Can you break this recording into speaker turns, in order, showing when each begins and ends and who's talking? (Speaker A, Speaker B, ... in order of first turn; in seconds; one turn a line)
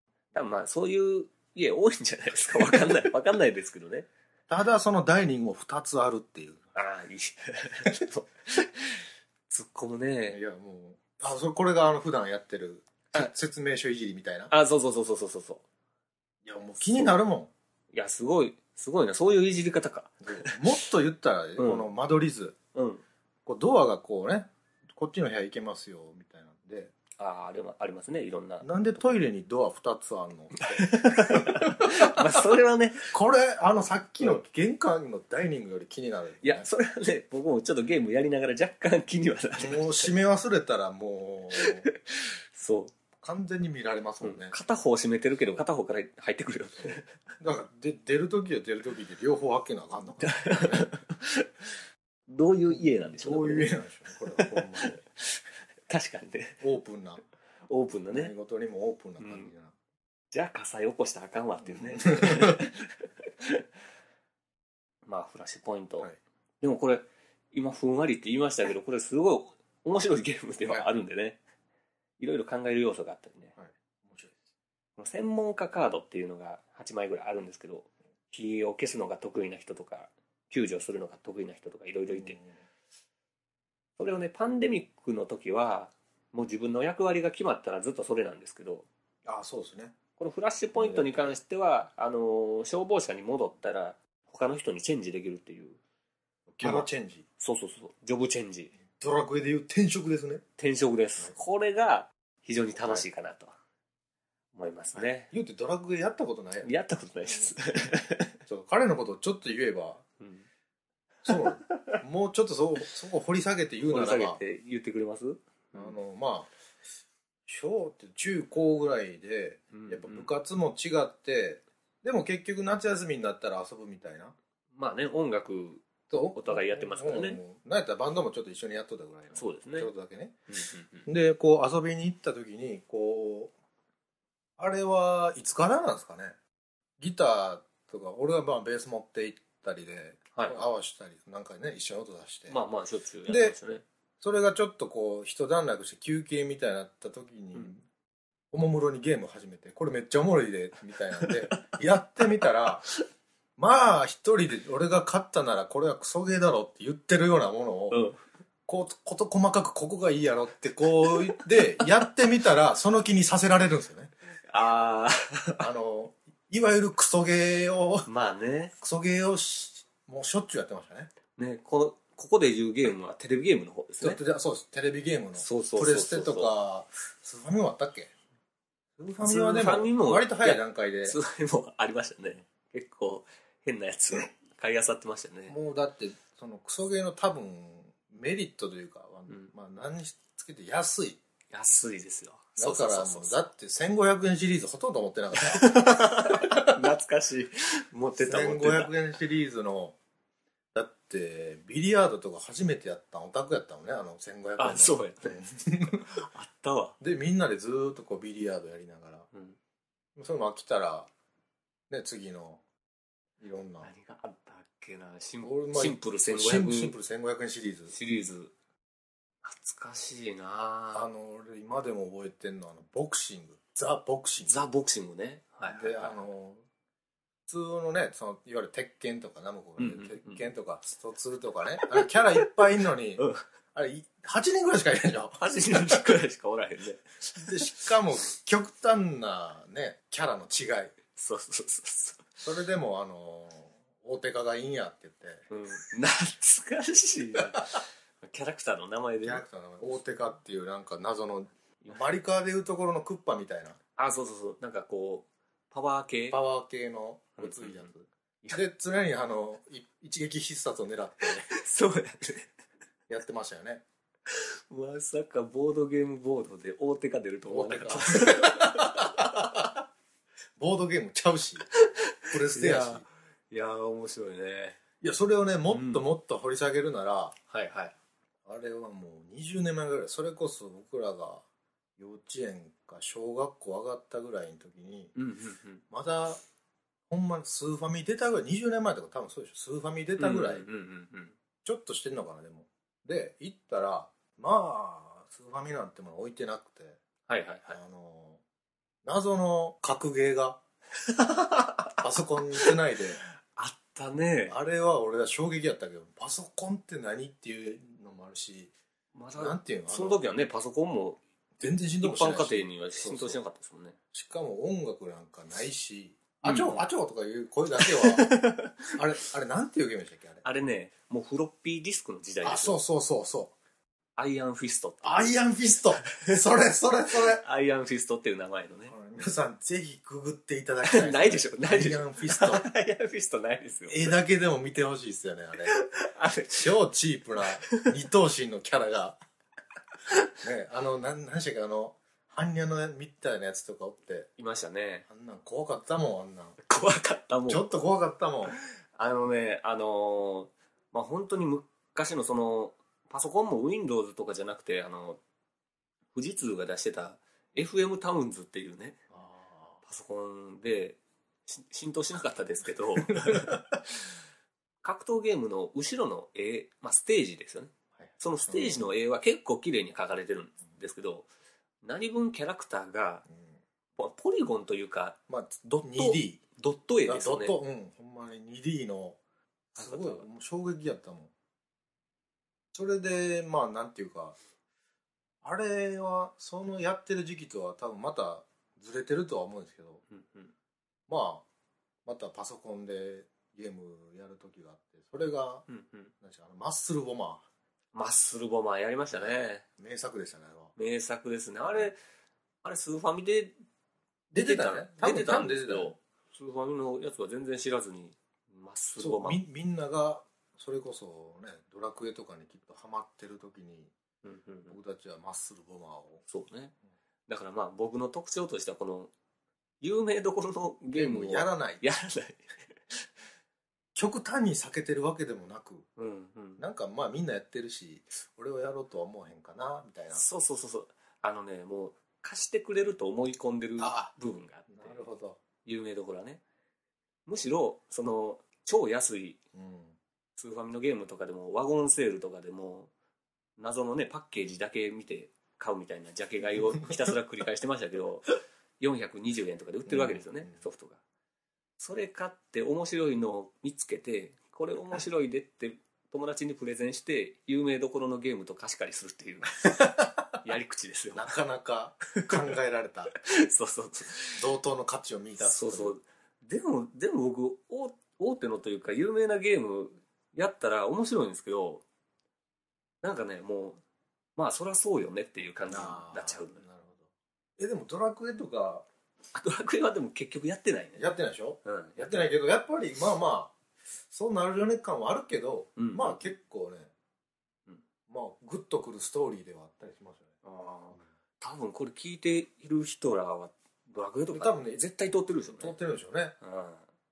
Speaker A: 0.3-4.1
Speaker B: 4.5-6.6
Speaker A: 6.7-10.4
Speaker B: 10.3-14.5
Speaker A: 14.5-15.6
Speaker B: 16.4-17.5
Speaker A: 17.9-20.8
Speaker B: 20.2-22.6
Speaker A: 21.6-21.9
Speaker A: 22.7-23.0
Speaker B: 23.4-26.9
Speaker A: 27.2-28.7
Speaker B: 28.6-32.4
Speaker A: 30.6-33.1
Speaker B: 33.1-36.6
Speaker A: 36.4-40.1
Speaker B: 39.6-41.9
Speaker A: 41.5-42.9
Speaker B: 43.2-44.5
Speaker A: 44.2-47.1
Speaker B: 46.9-50.9
Speaker A: 50.2-51.6
Speaker A: 52.3-53.8
Speaker B: 52.8-55.0
Speaker A: 54.3-56.6
Speaker B: 56.6-57.2
Speaker A: 57.7-58.3
Speaker B: 58.1-59.7
Speaker A: 59.2-59.5
Speaker A: 60.3-63.6
Speaker B: 61.7-62.7
Speaker A: 65.0-66.1
Speaker A: 66.6-71.4
Speaker A: 72.2-73.5
Speaker B: 73.6-74.3
Speaker A: 75.0-82.4
Speaker B: 82.1-82.5
Speaker A: 84.0-88.9
Speaker B: 89.2-90.0
Speaker A: 90.2-95.8
Speaker B: 90.7-91.3
Speaker B: 96.5-97.2
Speaker A: 96.6-96.9
Speaker A: 97.4-98.7
Speaker B: 99.0-100.4
Speaker A: 100.6-103.5
Speaker A: 104.5-105.3
Speaker B: 105.3-106.7
Speaker A: 106.6-108.4
Speaker B: 108.5-110.0
Speaker A: 110.2-110.5
Speaker B: 111.2-114.4
Speaker A: 111.3-112.0
Speaker A: 113.9-116.0
Speaker B: 115.7-116.5
Speaker B: 117.5-124.3
Speaker A: 119.7-120.3
Speaker A: 124.7-127.4
Speaker B: 126.1-130.4
Speaker A: 129.3-129.9
Speaker A: 130.5-131.1
Speaker B: 131.1-133.5
Speaker B: 134.6-136.3
Speaker B: 137.0-142.6
Speaker A: 140.3-140.6
Speaker A: 142.5-143.8
Speaker B: 143.3-143.6
Speaker B: 144.2-147.8
Speaker B: 148.5-152.9
Speaker A: 151.2-151.7
Speaker B: 153.6-158.1
Speaker A: 157.9-158.2
Speaker B: 158.7-164.1
Speaker A: 161.1-161.8
Speaker A: 164.5-165.7
Speaker B: 165.6-168.1
Speaker A: 168.1-168.7
Speaker B: 168.8-171.1
Speaker A: 171.4-174.2
Speaker B: 174.0-178.1
Speaker A: 175.4-176.5
Speaker B: 179.0-181.2
Speaker A: 179.2-185.5
Speaker B: 185.5-191.2
Speaker A: 191.5-193.4
Speaker B: 192.6-196.7
Speaker A: 195.3-198.9
Speaker B: 198.2-200.0
Speaker B: 200.7-206.1
Speaker A: 204.6-207.0
Speaker B: 207.0-209.3
Speaker B: 210.2-211.1
Speaker B: 211.9-212.6
Speaker B: 213.4-213.9
Speaker A: 213.8-216.9
Speaker B: 215.4-217.9
Speaker A: 217.9-218.5
Speaker A: 219.4-221.1
Speaker B: 220.9-224.6
Speaker A: 224.4-226.2
Speaker B: 225.7-226.6
Speaker B: 227.5-236.2
Speaker A: 229.8-230.4
Speaker A: 231.9-232.5
Speaker A: 235.4-237.8
Speaker B: 237.4-240.9
Speaker A: 241.1-242.4
Speaker B: 242.4-245.4
Speaker A: 245.5-249.4
Speaker B: 249.2-253.8
Speaker A: 254.0-256.4
Speaker B: 256.3-261.5
Speaker A: 257.4-257.9
Speaker A: 261.4-262.5
Speaker B: 263.1-263.8
Speaker A: 264.3-269.5
Speaker B: 267.5-269.8
Speaker B: 270.6-271.7
Speaker A: 271.7-274.8
Speaker B: 272.3-273.0
Speaker B: 275.0-277.3
Speaker A: 275.7-276.0
Speaker A: 277.5-277.9
Speaker B: 278.4-281.4
Speaker B: 282.0-285.1
Speaker A: 285.1-285.8
Speaker B: 285.9-286.4
Speaker B: 287.1-290.6
Speaker A: 290.2-291.4
Speaker B: 291.6-297.0
Speaker A: 297.3-297.8
Speaker B: 297.7-298.4
Speaker B: 299.0-300.6
Speaker A: 301.0-302.7
Speaker B: 302.0-303.2
Speaker A: 303.5-304.6
Speaker B: 304.5-308.7
Speaker A: 309.1-311.2
Speaker B: 309.4-310.2
Speaker B: 311.6-313.4
Speaker A: 312.0-313.9
Speaker B: 314.1-318.3
Speaker A: 316.4-316.9
Speaker A: 317.8-318.9
Speaker B: 318.9-320.4
Speaker A: 320.4-322.8
Speaker B: 322.4-323.5
Speaker A: 324.2-325.4
Speaker B: 325.0-327.4
Speaker A: 326.1-326.4
Speaker A: 327.1-328.9
Speaker B: 328.9-332.6
Speaker A: 330.8-334.1
Speaker B: 333.9-335.7
Speaker A: 335.7-336.7
Speaker B: 336.6-339.2
Speaker A: 337.6-337.9
Speaker B: 340.4-344.3
Speaker A: 344.4-345.1
Speaker B: 345.1-346.6
Speaker A: 346.6-347.7
Speaker B: 347.5-348.6
Speaker A: 348.5-355.2
Speaker A: 356.1-359.0
Speaker B: 359.1-359.8
Speaker A: 359.9-364.0
Speaker B: 363.1-363.6
Speaker A: 364.8-371.3
Speaker B: 368.0-368.9
Speaker A: 371.8-373.2
Speaker A: 373.9-375.2
Speaker B: 375.3-376.4
Speaker A: 376.0-377.6
Speaker B: 377.0-379.2
Speaker B: 379.7-381.3
Speaker A: 379.8-380.2
Speaker B: 382.7-384.4
Speaker B: 385.4-390.0
Speaker A: 390.1-390.5
Speaker B: 391.1-391.4
Speaker B: 392.1-395.6
Speaker A: 395.7-396.1
Speaker B: 396.2-397.4
Speaker A: 397.9-399.6
Speaker B: 399.1-400.7
Speaker A: 400.8-402.0
Speaker B: 401.6-401.9
Speaker A: 402.6-403.5
Speaker B: 404.3-405.9
Speaker A: 404.4-409.4
Speaker B: 409.0-413.9
Speaker A: 414.2-414.8
Speaker B: 414.7-416.2
Speaker A: 416.3-416.7
Speaker A: 417.3-419.1
Speaker A: 419.8-423.1
Speaker B: 420.9-421.8
Speaker B: 423.9-425.9
Speaker A: 426.0-426.6
Speaker B: 426.6-430.2
Speaker A: 430.1-435.1
Speaker B: 433.8-434.1
Speaker B: 434.7-435.4
Speaker A: 435.6-436.4
Speaker A: 437.2-439.4
Speaker B: 439.5-440.0
Speaker A: 440.4-442.9
Speaker A: 443.6-451.0
Speaker B: 446.6-446.9
Speaker B: 449.9-450.6
Speaker A: 451.8-461.3
Speaker B: 459.7-460.2
Speaker B: 461.1-463.1
Speaker A: 462.1-462.5
Speaker A: 463.1-464.4
Speaker B: 464.3-465.9
Speaker A: 465.4-471.8
Speaker A: 473.0-473.8
Speaker A: 474.4-476.6
Speaker B: 475.6-478.9
Speaker A: 479.3-481.0
Speaker B: 480.9-483.5
Speaker A: 481.6-482.3
Speaker B: 484.1-486.9
Speaker A: 485.8-486.3
Speaker B: 488.1-490.4
Speaker A: 490.4-495.8
Speaker B: 494.3-494.8
Speaker B: 495.5-496.4
Speaker A: 496.4-496.8